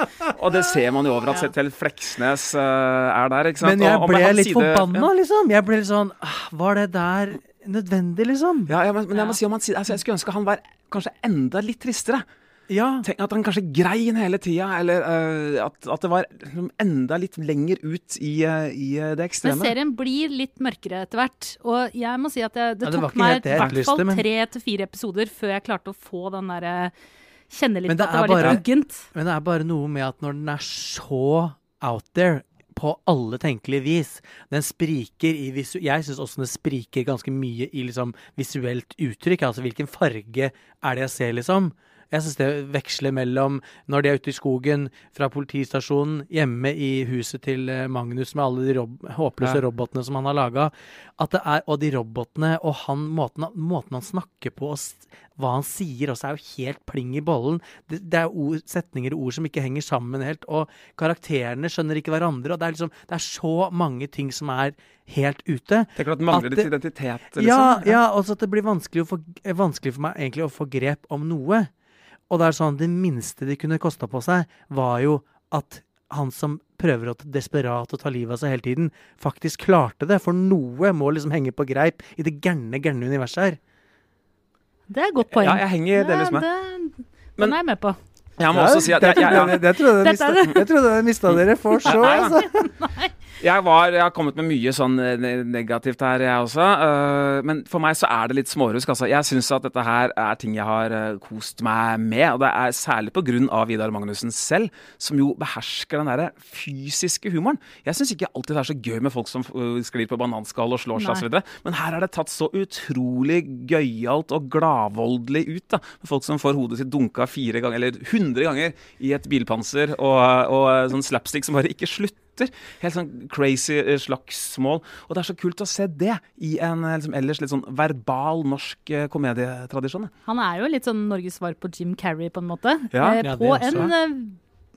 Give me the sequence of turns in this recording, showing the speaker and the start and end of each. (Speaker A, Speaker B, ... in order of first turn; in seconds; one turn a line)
Speaker A: 0.3-5.1
Speaker B: 3.6-8.7
Speaker A: 8.7-12.3
Speaker B: 12.7-13.1
Speaker A: 13.0-19.7
Speaker C: 19.4-26.9
Speaker B: 22.8-24.2
Speaker C: 27.5-29.1
Speaker B: 27.9-66.7
Speaker A: 66.0-68.0
Speaker B: 67.4-71.7
Speaker B: 72.3-83.6
Speaker C: 84.9-88.0
Speaker A: 85.3-86.5
Speaker A: 88.4-89.7
Speaker B: 88.5-92.7
Speaker C: 90.0-90.6
Speaker A: 91.3-92.4
Speaker C: 91.8-93.1
Speaker A: 93.4-130.1
Speaker C: 111.0-111.2
Speaker C: 130.3-134.4
Speaker A: 132.9-133.9
Speaker B: 133.2-133.9